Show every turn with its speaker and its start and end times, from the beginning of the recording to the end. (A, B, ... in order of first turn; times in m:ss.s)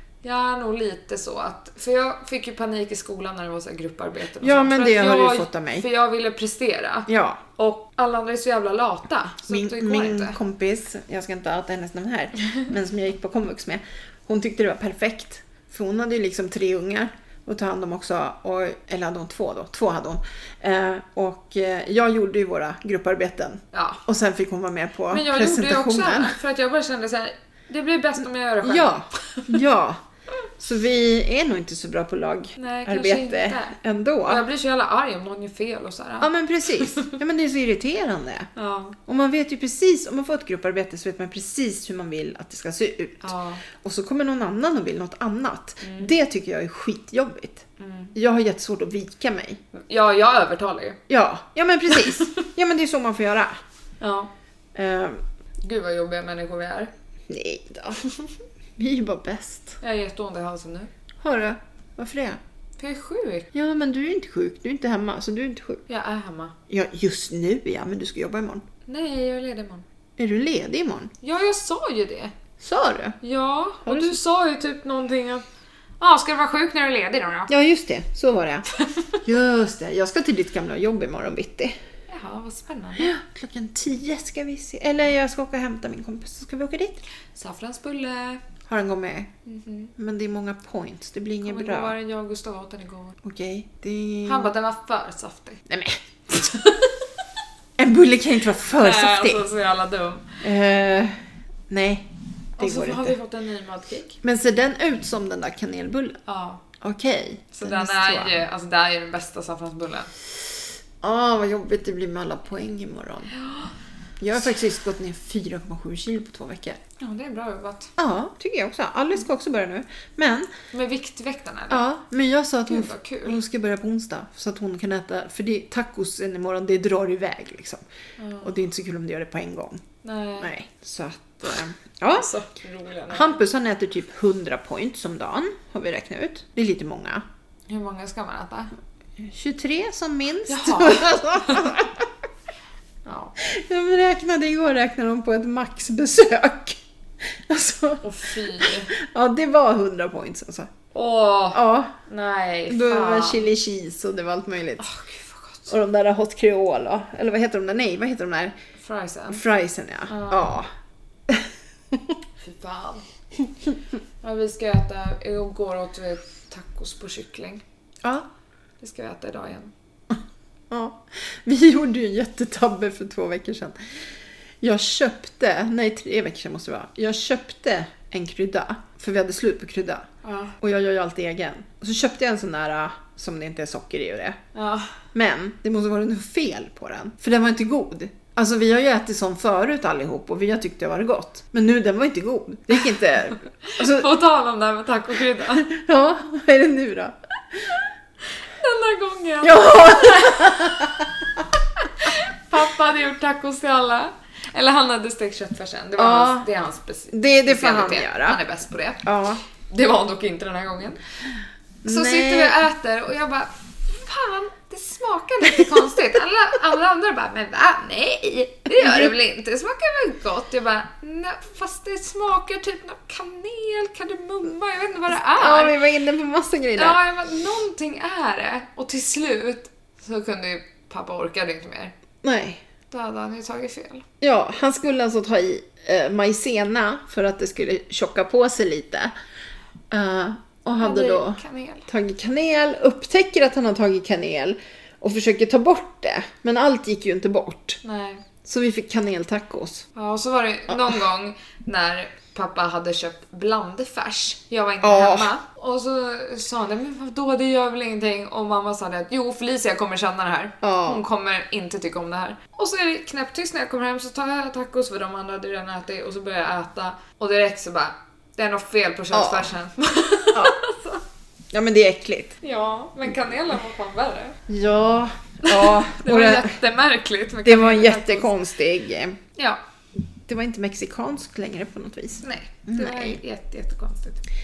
0:00.2-0:10.4 A
0:04.4-0:05.9 B
0:07.1-0:07.4 B
0:09.5-0:26.4 B
0:23.7-0:24.0 A
0:25.1-0:29.5 A
0:28.6-0:30.0 B
0:30.6-0:34.4 B
0:32.6-0:37.2 A
0:36.2-0:38.5 B
0:38.6-0:39.0 A
0:39.1-0:49.6 B
0:43.2-0:43.6 A
0:45.8-0:46.1 A
0:47.8-0:48.2 A
0:49.7-0:51.0 A
0:51.1-0:53.5 B
0:51.9-0:52.4 A
0:54.0-0:54.3 A
0:54.8-0:55.2 B
0:55.6-0:56.9 A
0:57.3-0:58.1 B
0:58.8-0:59.8 B
0:59.8-1:00.9 A
1:01.2-1:02.4 B
1:02.8-1:03.5 A
1:03.5-1:05.8 B
1:05.9-1:06.6 A
1:06.7-1:08.6 B
1:08.9-1:09.8 A
1:10.2-1:11.1 B
1:11.2-1:12.3 A
1:12.6-1:13.2 B
1:13.2-1:15.4 A
1:13.8-1:14.2 B
1:16.0-1:17.5 A
1:17.5-1:18.7 B
1:18.8-1:19.2 A
1:19.2-1:21.8 B
1:22.1-1:23.1 A
1:23.0-1:27.0 B
1:27.3-1:28.4 A
1:28.7-1:29.3 B
1:29.5-1:29.9 A
1:30.0-1:32.0 B
1:31.4-1:33.2 A
1:33.2-1:34.5 B
1:34.2-1:35.6 A
1:35.7-1:36.5 B
1:36.3-1:37.0 A
1:37.8-1:39.4 B
1:38.7-1:40.4 A
1:40.4-1:43.2 B
1:42.6-1:44.2 A
1:44.2-1:46.2 B
1:46.3-1:46.6 A
1:46.8-1:48.4 B
1:47.5-1:50.1 A
1:51.0-1:53.3 B
1:53.3-1:53.7 A
1:54.2-1:56.8 B
1:57.0-1:57.9 A
1:58.0-2:00.5 B
2:00.7-2:01.8 A
2:01.7-2:07.8 B
2:02.7-2:03.4 A
2:08.2-2:08.6 A
2:08.4-2:09.8 B
2:10.0-2:10.5 A
2:10.4-2:12.3 B
2:12.1-2:13.4 A
2:13.1-2:17.2 B
2:17.7-2:18.7 A
2:19.2-2:22.1 B
2:20.5-2:21.8 A
2:23.0-2:23.4 A
2:23.4-2:30.7 B
2:28.0-2:28.9 A
2:30.9-2:33.5 A
2:31.5-2:31.9 B
2:32.7-2:34.8 B
2:34.8-2:35.7 A
2:35.7-2:38.6 B
2:38.8-2:39.4 A
2:39.3-2:40.7 B
2:40.1-2:40.5 A
2:41.3-2:42.2 B
2:42.4-2:43.0 A
2:44.2-2:47.6 A
2:48.8-2:49.7 A
2:50.7-2:53.8 B
2:54.6-3:00.1 B
3:00.2-3:00.6 A
3:00.6-3:04.4 B
3:04.5-3:04.9 A
3:05.1-3:14.1 B
3:13.6-3:15.7 A
3:15.5-3:17.8 B
3:18.5-3:20.9 A
3:19.4-3:21.3 B
3:21.8-3:29.1 A
3:26.0-3:26.5 B
3:27.1-3:28.4 B
3:29.0-3:29.4 B
3:29.6-3:31.0 A
3:31.8-3:32.6 B
3:31.8-3:45.8 A
3:38.7-3:39.1 B
3:45.4-3:47.0 B
3:46.8-3:51.9 A
3:52.2-3:52.6 B
3:52.9-3:54.0 A
3:54.2-3:59.1 B
3:59.9-4:07.8 B
4:00.8-4:01.9 A
4:07.8-4:08.2 A
4:08.4-4:09.9 B
4:10.0-4:31.0 A
4:10.7-4:11.0 B
4:14.8-4:15.3 B
4:20.6-4:21.1 B
4:29.1-4:29.5 B
4:31.5-4:32.4 B
4:32.4-4:34.4 A
4:34.5-4:36.6 B
4:35.4-4:38.3 A
4:37.4-4:39.2 B
4:40.3-4:43.2 B
4:42.2-4:44.2 A